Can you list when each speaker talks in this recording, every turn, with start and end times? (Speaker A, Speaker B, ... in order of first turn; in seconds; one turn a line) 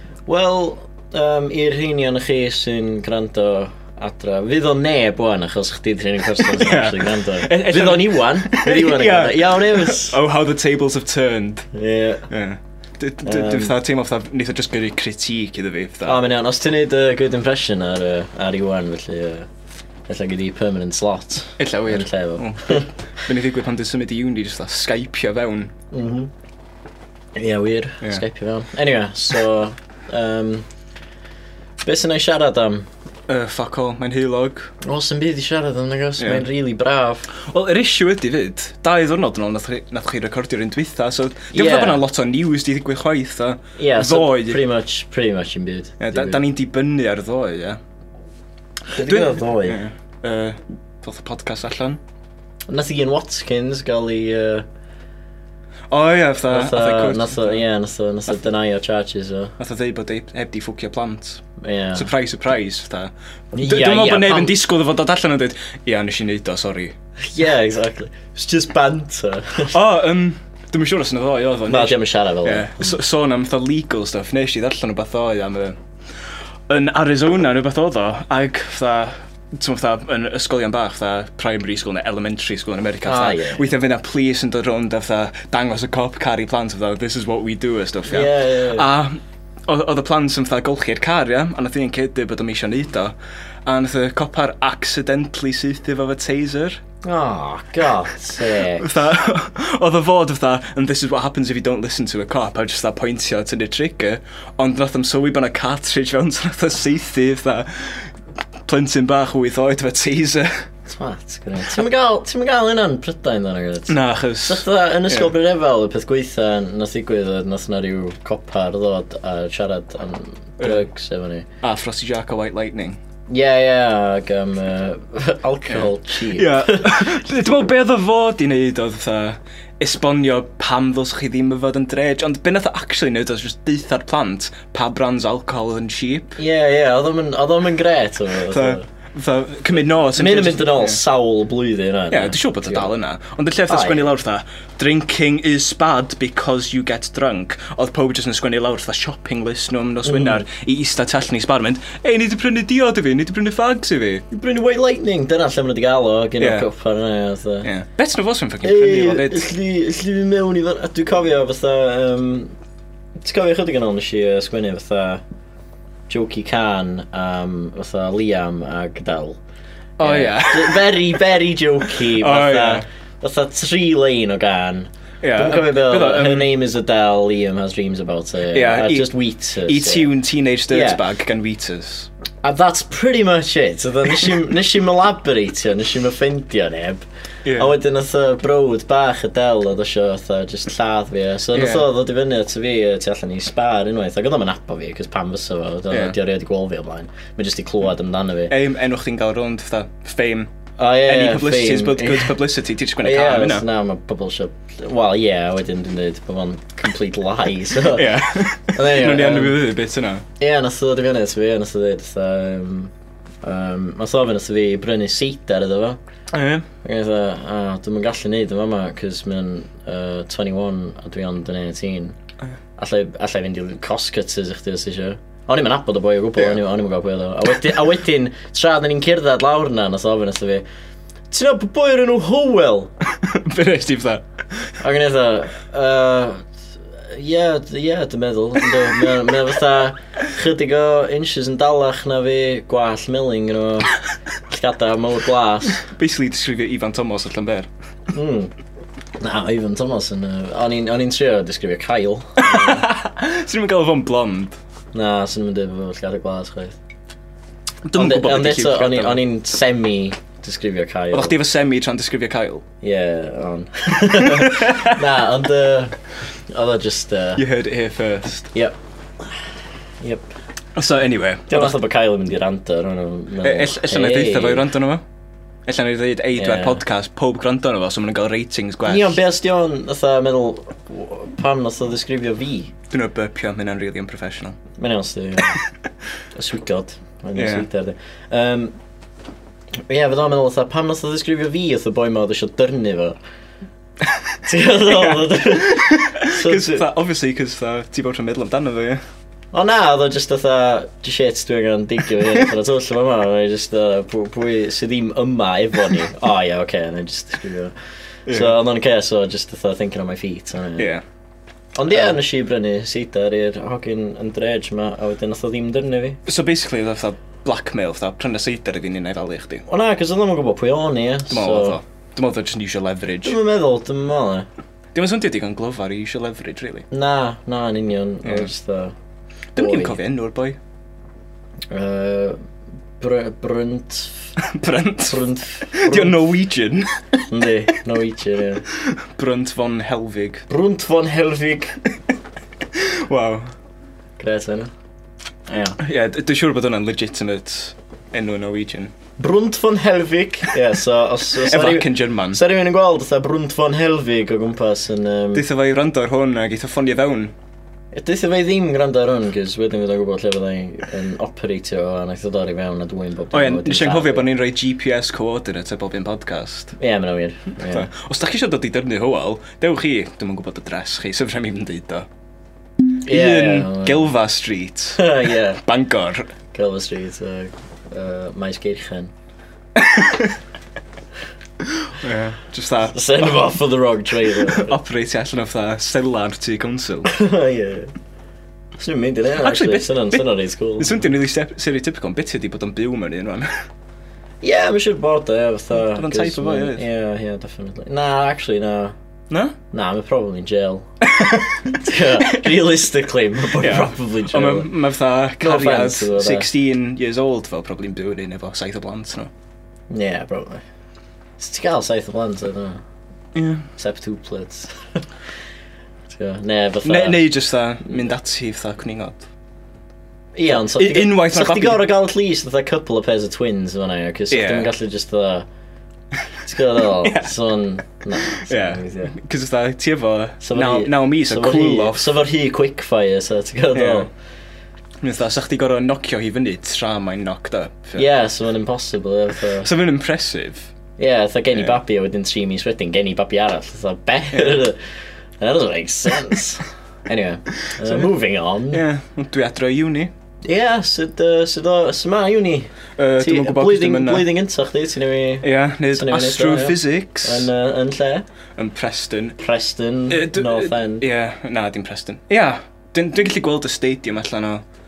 Speaker A: 0.3-10.2
Speaker B: 6.4-11.7
Speaker A: 11.7-12.3
Speaker B: 12.3-16.2
Speaker A: 13.2-13.8
Speaker A: 16.1-19.5
Speaker A: 20.1-22.9
Speaker B: 21.6-25.7
Speaker A: 25.9-26.3
Speaker A: 27.4-30.7
Speaker A: 31.8-32.9
Speaker B: 33.3-34.7
Speaker A: 34.8-37.3
Speaker B: 36.2-36.5
Speaker B: 37.4-44.6
Speaker A: 41.5-42.0
Speaker A: 43.8-46.4
Speaker B: 46.0-47.8
Speaker A: 48.9-49.8
Speaker B: 49.0-52.0
Speaker A: 52.7-54.6
Speaker B: 55.9-57.6
Speaker A: 56.5-59.5
Speaker B: 59.6-61.4
Speaker A: 61.6-62.1
Speaker B: 62.0-67.0
Speaker A: 63.5-64.6
Speaker A: 67.3-69.8
Speaker B: 69.7-75.8
Speaker A: 71.7-72.9
Speaker B: 76.7-93.1
Speaker A: 83.0-83.6
Speaker A: 88.1-88.9
Speaker B: 93.7-96.8
Speaker A: 97.0-98.9
Speaker B: 98.5-108.1
Speaker B: 108.7-110.7
Speaker A: 110.9-121.5
Speaker B: 113.9-115.3
Speaker B: 121.6-123.0
Speaker A: 123.3-127.1
Speaker B: 125.7-136.4
Speaker A: 136.4-138.9
Speaker B: 138.5-141.0
Speaker A: 140.1-142.9
Speaker B: 142.1-154.2
Speaker A: 143.7-144.1
Speaker A: 150.1-150.4
Speaker A: 154.3-157.7
Speaker B: 156.4-156.7
Speaker B: 157.6-159.5
Speaker A: 158.6-162.5
Speaker A: 163.2-165.2
Speaker A: 166.1-169.4
Speaker A: 170.0-180.1
Speaker B: 170.0-171.1
Speaker B: 172.0-172.8
Speaker B: 175.2-176.5
Speaker B: 178.5-182.1
Speaker A: 180.7-181.0
Speaker A: 182.4-187.1
Speaker B: 187.4-187.7
Speaker A: 187.6-198.5
Speaker B: 191.5-191.9
Speaker B: 195.9-196.2
Speaker B: 198.5-200.5
Speaker A: 200.8-202.3
Speaker B: 201.1-203.7
Speaker A: 203.0-209.6
Speaker B: 207.9-210.2
Speaker A: 210.4-212.9
Speaker A: 213.4-216.0
Speaker B: 216.3-216.7
Speaker A: 216.8-222.2
Speaker A: 222.8-230.6
Speaker A: 231.3-232.9
Speaker B: 233.1-234.2
Speaker A: 234.8-236.5
Speaker A: 237.1-244.0
Speaker A: 244.5-245.8
Speaker B: 245.8-247.7
Speaker A: 248.1-248.5
Speaker A: 249.2-252.9
Speaker B: 252.4-254.6
Speaker A: 254.9-256.8
Speaker B: 257.9-259.2
Speaker A: 257.9-261.4
Speaker B: 261.1-262.6
Speaker A: 262.8-266.0
Speaker B: 264.2-265.0
Speaker A: 266.5-267.4
Speaker B: 267.4-268.5
Speaker A: 270.0-270.3
Speaker B: 270.8-271.8
Speaker A: 271.5-274.7
Speaker B: 273.4-275.0
Speaker B: 275.7-279.2
Speaker A: 276.4-276.8
Speaker A: 278.9-282.7
Speaker B: 282.9-284.6
Speaker A: 284.8-285.6
Speaker A: 286.4-288.7
Speaker B: 287.4-287.7
Speaker A: 289.9-293.2
Speaker A: 294.4-296.9
Speaker B: 294.9-299.0
Speaker A: 299.5-307.7
Speaker B: 308.3-308.6
Speaker A: 308.3-310.9
Speaker B: 310.8-311.0
Speaker A: 311.8-316.2
Speaker B: 311.9-312.2
Speaker B: 316.3-319.6
Speaker A: 319.7-321.8
Speaker B: 321.3-323.4
Speaker A: 323.2-324.5
Speaker B: 324.9-326.9
Speaker A: 326.9-328.9
Speaker B: 329.5-330.6
Speaker A: 329.6-330.0
Speaker A: 331.7-332.4
Speaker A: 333.0-334.3
Speaker B: 334.4-337.2
Speaker A: 335.1-336.2
Speaker A: 337.3-338.7
Speaker B: 338.7-340.5
Speaker A: 340.5-341.8
Speaker B: 342.7-343.5
Speaker A: 344.2-344.7
Speaker A: 345.5-345.8
Speaker B: 345.8-348.9
Speaker A: 349.2-355.4
Speaker B: 351.3-352.4
Speaker B: 355.3-357.3
Speaker A: 357.9-364.3
Speaker B: 363.3-366.8
Speaker A: 366.8-367.9
Speaker B: 367.6-372.1
Speaker A: 373.0-374.1
Speaker B: 373.0-376.3
Speaker A: 375.0-375.6
Speaker A: 376.5-379.1
Speaker B: 379.8-380.4
Speaker B: 381.6-383.5
Speaker A: 382.9-384.8
Speaker B: 384.3-387.1
Speaker A: 387.1-387.9
Speaker A: 388.8-391.1
Speaker B: 389.3-390.3
Speaker B: 390.8-393.5
Speaker A: 394.4-398.9
Speaker B: 395.8-396.8
Speaker B: 399.3-399.6
Speaker A: 399.7-400.9
Speaker B: 401.0-402.5
Speaker A: 401.7-404.7
Speaker B: 403.6-409.3
Speaker A: 405.4-406.5
Speaker A: 409.9-410.6
Speaker A: 411.4-412.8
Speaker B: 413.4-413.7
Speaker A: 413.8-415.0
Speaker A: 416.1-417.2
Speaker B: 416.8-419.3
Speaker A: 420.4-425.5
Speaker B: 420.5-421.9
Speaker B: 424.3-424.7
Speaker A: 426.4-429.1
Speaker B: 427.0-427.3
Speaker B: 428.4-432.1
Speaker A: 430.4-434.1
Speaker B: 433.7-434.1
Speaker B: 435.0-438.1
Speaker A: 438.0-439.7
Speaker B: 439.6-440.7
Speaker A: 441.0-444.8
Speaker B: 444.4-444.6
Speaker A: 445.4-448.8
Speaker B: 447.8-448.1
Speaker B: 448.7-450.1
Speaker A: 450.4-458.2
Speaker B: 453.0-454.3
Speaker B: 455.4-457.5
Speaker B: 458.6-459.4
Speaker A: 459.4-461.1
Speaker B: 460.1-464.6